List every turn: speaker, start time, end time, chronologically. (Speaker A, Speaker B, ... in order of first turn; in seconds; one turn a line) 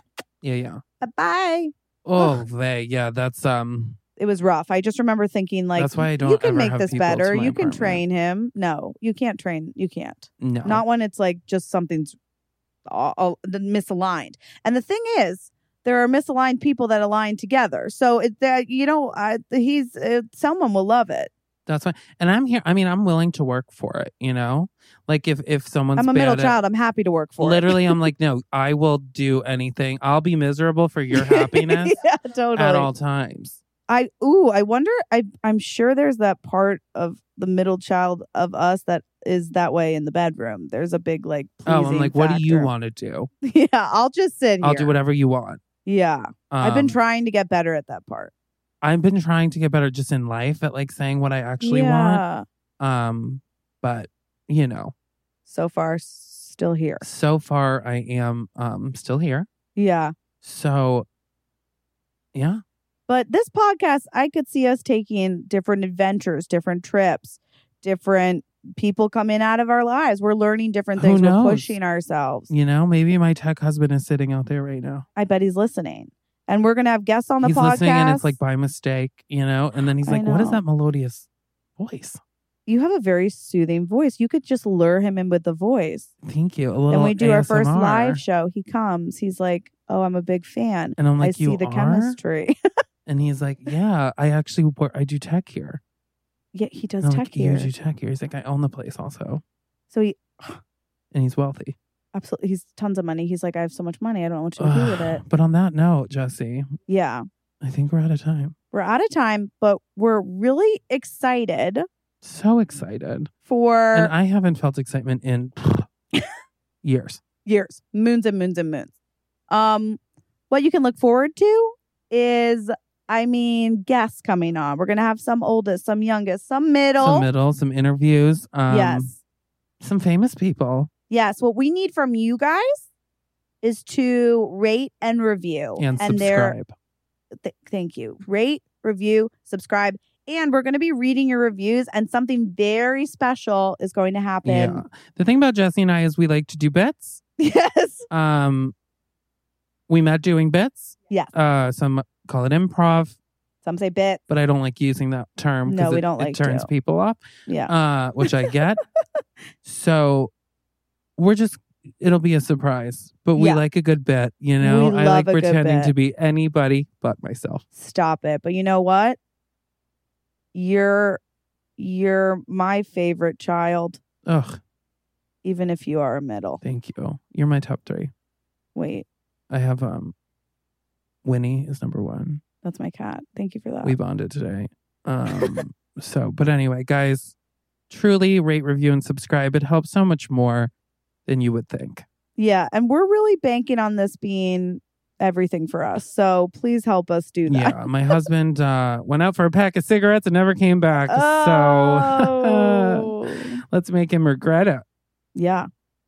Speaker A: 0.4-0.8
Speaker B: 1.0-2.4
Speaker A: 2.0-4.0
Speaker B: 4.2-12.2
Speaker A: 5.8-8.0
Speaker A: 10.4-10.8
Speaker B: 12.9-21.3
Speaker A: 21.7-26.6
Speaker B: 26.0-28.1
Speaker A: 27.4-31.9
Speaker B: 31.1-32.9
Speaker A: 32.6-33.6
Speaker B: 33.9-42.7
Speaker A: 41.7-43.3
Speaker B: 43.4-44.9
Speaker A: 44.6-45.6
Speaker B: 45.9-48.3
Speaker A: 46.5-47.0
Speaker A: 48.8-52.2
Speaker B: 51.6-52.4
Speaker A: 52.8-54.9
Speaker B: 55.5-57.0
Speaker A: 57.0-59.5
Speaker B: 59.8-60.1
Speaker A: 60.4-61.1
Speaker A: 62.3-62.6
Speaker B: 63.1-72.5
Speaker A: 71.0-71.8
Speaker A: 72.5-75.0
Speaker B: 75.2-78.4
Speaker A: 77.4-82.2
Speaker B: 80.0-80.6
Speaker B: 82.7-86.1
Speaker A: 86.2-88.2
Speaker B: 86.9-92.5
Speaker A: 91.0-92.2
Speaker A: 93.1-95.8
Speaker B: 96.5-97.7
Speaker A: 97.0-99.4
Speaker B: 99.9-100.6
Speaker A: 101.1-101.8
Speaker B: 102.1-105.2
Speaker A: 104.6-106.7
Speaker B: 106.9-107.2
Speaker A: 107.6-108.5
Speaker B: 108.7-111.8
Speaker A: 112.2-113.3
Speaker B: 113.5-114.1
Speaker A: 113.9-115.9
Speaker A: 116.8-117.2
Speaker B: 117.5-118.9
Speaker B: 119.5-120.0
Speaker B: 120.5-127.3
Speaker A: 127.0-129.1
Speaker B: 128.7-129.2
Speaker A: 129.8-130.9
Speaker B: 131.1-132.9
Speaker B: 133.6-136.6
Speaker A: 135.8-136.7
Speaker B: 137.4-144.8
Speaker A: 144.4-147.2
Speaker B: 147.4-148.1
Speaker A: 148.1-148.7
Speaker A: 149.9-153.2
Speaker B: 153.6-154.2
Speaker A: 154.3-158.8
Speaker B: 155.7-156.7
Speaker B: 157.5-157.7
Speaker B: 158.2-158.5
Speaker A: 159.7-160.3
Speaker A: 161.2-167.6
Speaker B: 163.3-163.6
Speaker B: 164.6-165.9
Speaker B: 167.8-169.2
Speaker B: 170.5-171.2
Speaker B: 171.8-174.0
Speaker A: 174.3-174.6
Speaker B: 175.4-176.6
Speaker A: 176.6-178.1
Speaker B: 178.8-179.1
Speaker A: 179.5-180.1
Speaker A: 181.2-182.4
Speaker B: 182.6-184.0
Speaker A: 183.8-187.3
Speaker B: 185.3-185.6
Speaker A: 187.9-190.7
Speaker A: 191.3-192.1
Speaker B: 192.4-198.2
Speaker A: 197.5-203.1
Speaker B: 201.1-203.6
Speaker A: 203.7-204.8
Speaker B: 205.3-205.7